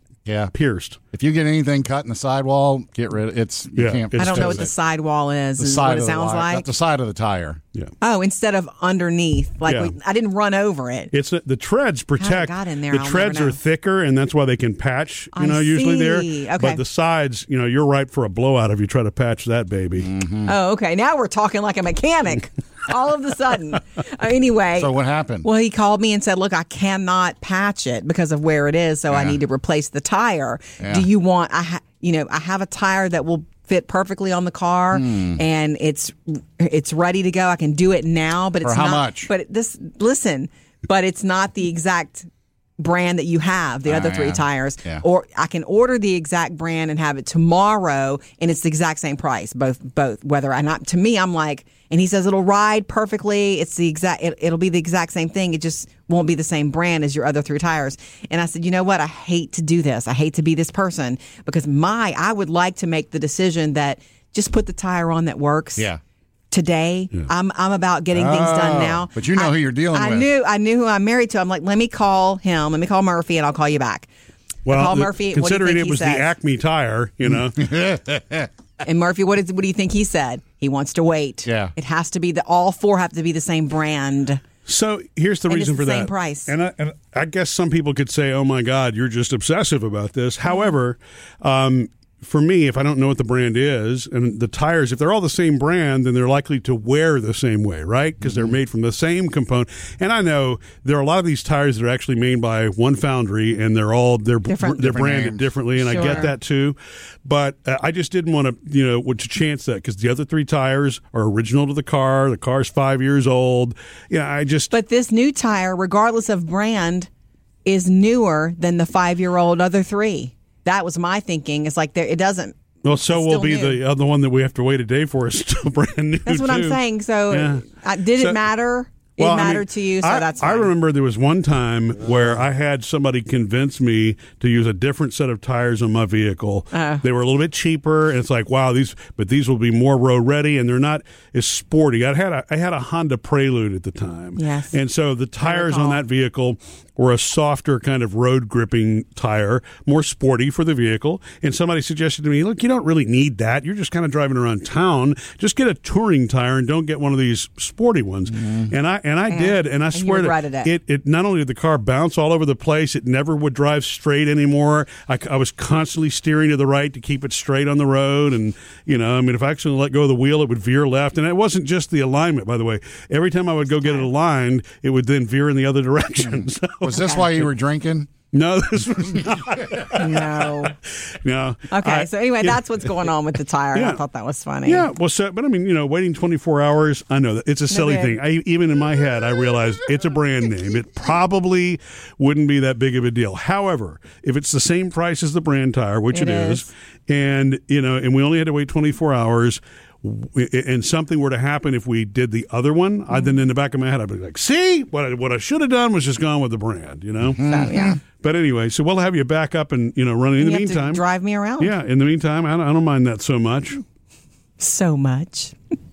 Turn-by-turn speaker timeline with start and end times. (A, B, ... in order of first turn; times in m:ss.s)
0:00.3-0:00.5 A
0:00.5-0:01.0 B
0:01.1-0:04.7 A
0:03.8-0:04.7 B
0:04.2-0:06.7 C
0:05.6-0:07.6 A
0:08.0-0:11.1 C
0:09.7-0:10.0 B
0:11.1-0:20.1 B
0:12.2-0:13.6 C
0:15.4-0:16.8 C
0:20.0-0:20.5 A
0:20.4-0:42.3 C
0:24.8-0:25.5 A
0:29.1-0:29.4 A
0:30.8-0:31.1 A
0:34.9-0:35.4 A
0:38.6-0:39.3 A
0:42.8-1:05.9 C
0:43.9-0:45.0 A
1:06.5-1:14.1 C
1:08.1-1:10.3 A
1:14.6-1:17.7 B
1:14.7-1:16.3 C
1:17.5-1:18.5 A
1:18.8-1:24.4 C
1:21.5-1:21.7 A
1:24.6-1:54.7 B
1:25.5-1:26.5 C
1:44.5-1:44.8 C
1:44.7-1:46.2 A
1:45.9-1:46.3 C
1:54.7-1:57.1 C
1:57.7-2:03.8 C
2:02.8-2:08.4 B
2:06.3-2:10.7 C
2:09.2-2:57.2 B
2:16.7-2:17.0 C
2:24.4-2:24.8 C
2:25.4-2:26.0 C
2:39.3-2:40.7 C
2:56.8-2:58.1 A
2:56.9-2:57.3 C
2:58.3-3:02.8 B
2:59.9-3:00.8 C
3:01.7-3:04.9 C
3:03.7-3:04.0 B
3:04.7-3:27.5 B
3:07.7-3:08.2 C
3:16.1-3:16.7 C
3:27.2-3:28.0 A
3:27.4-3:28.0 C
3:28.2-3:31.0 B
3:30.4-3:31.8 C
3:31.6-3:33.8 B
3:34.6-3:35.6 C